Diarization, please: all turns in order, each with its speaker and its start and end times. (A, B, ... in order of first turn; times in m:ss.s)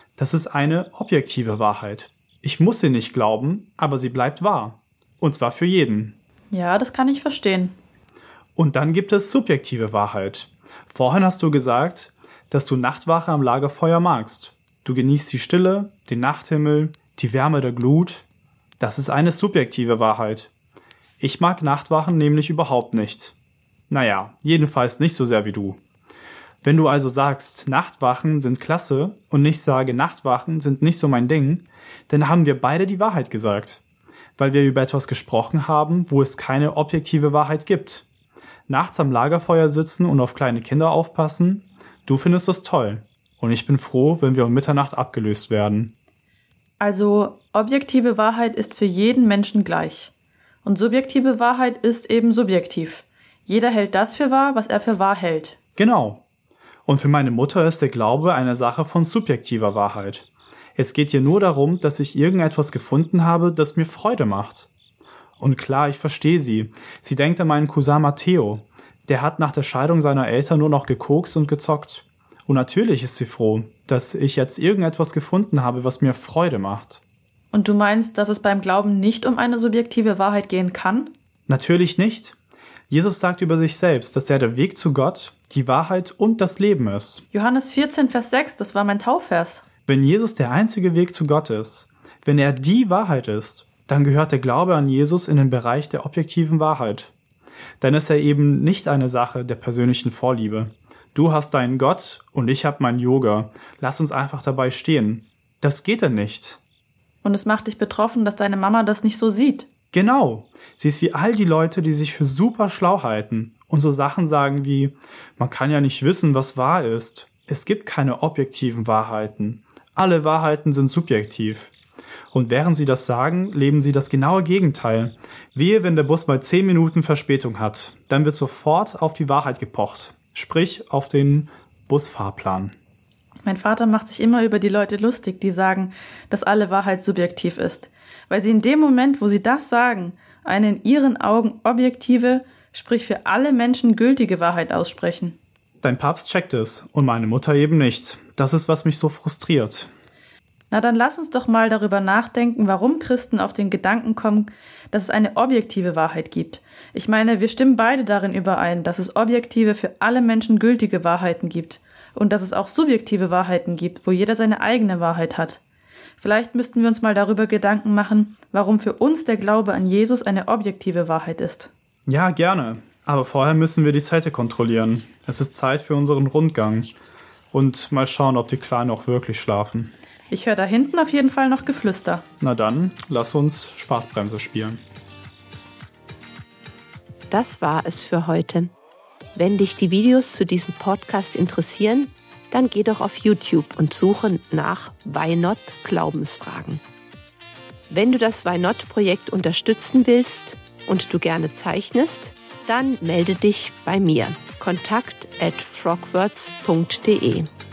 0:00.2-0:06.2 A
0:06.5-0:07.7 B
0:08.6-0:18.2 A
0:18.8-0:20.5 A
0:21.2-0:23.3 A
0:23.9-0:25.8 A
0:26.6-0:33.8 A
0:34.4-0:38.0 A
0:38.7-0:45.9 A
0:46.8-0:50.1 B
0:50.6-0:55.6 B
0:55.8-0:56.2 A
0:56.8-1:04.7 A
1:05.4-1:17.0 A
1:17.5-1:21.1 B
1:21.5-1:22.4 A
1:22.9-1:27.2 A
1:27.3-1:29.6 B
1:29.8-1:37.1 A
1:37.8-1:46.6 A
1:47.2-1:49.7 B
1:49.9-2:01.7 A
2:02.3-2:12.8 A
2:13.4-2:25.4 B
2:25.8-2:29.9 A
2:30.7-2:45.6 B
2:46.2-2:51.7 B
2:52.0-2:56.9 A
2:57.5-2:59.9 A
3:00.3-3:02.2 B
3:02.4-3:04.8 A
3:07.3-3:08.7 C
3:09.3-3:16.8 C
3:17.9-3:27.5 C